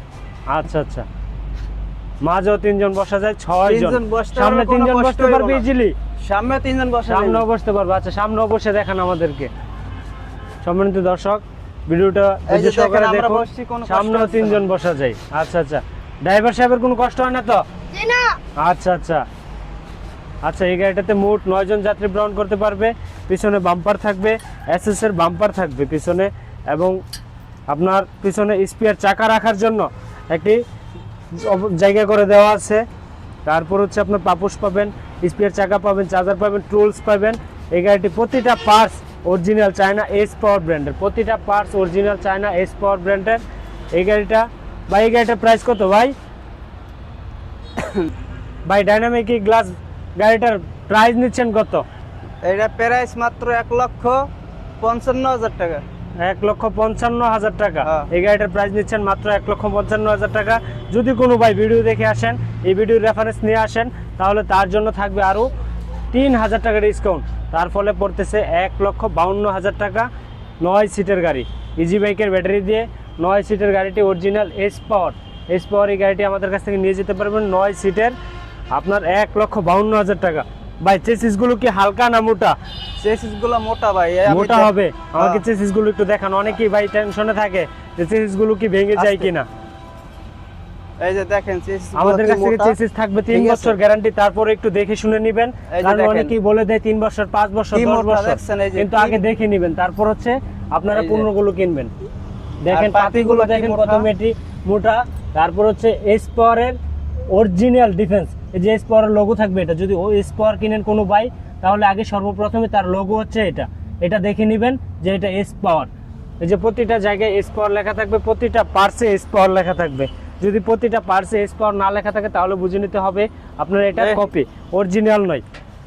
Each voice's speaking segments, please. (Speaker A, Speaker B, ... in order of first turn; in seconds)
Speaker A: 0.5-1.1, 2.2-6.0, 7.1-9.5, 10.6-17.6, 18.6-19.3, 20.4-27.0, 27.7-30.6, 31.3-32.9, 33.5-43.4, 43.9-46.1, 48.7-51.9, 56.2-65.5, 66.1-70.1, 70.6-78.2, 78.7-82.6, 84.3-89.5, 92.0-101.9, 102.6-106.8, 107.3-115.9, 116.4-125.4
Speaker B: 3.6-5.7, 6.2-7.4, 12.5-14.6, 47.8-48.1, 52.4-54.3, 54.8-55.8, 57.8-58.1, 83.0-85.4, 89.0-89.3, 91.0-92.8, 93.3-93.8, 95.7-96.3, 97.7-99.2, 100.9-101.3, 102.7-104.1, 124.0-124.3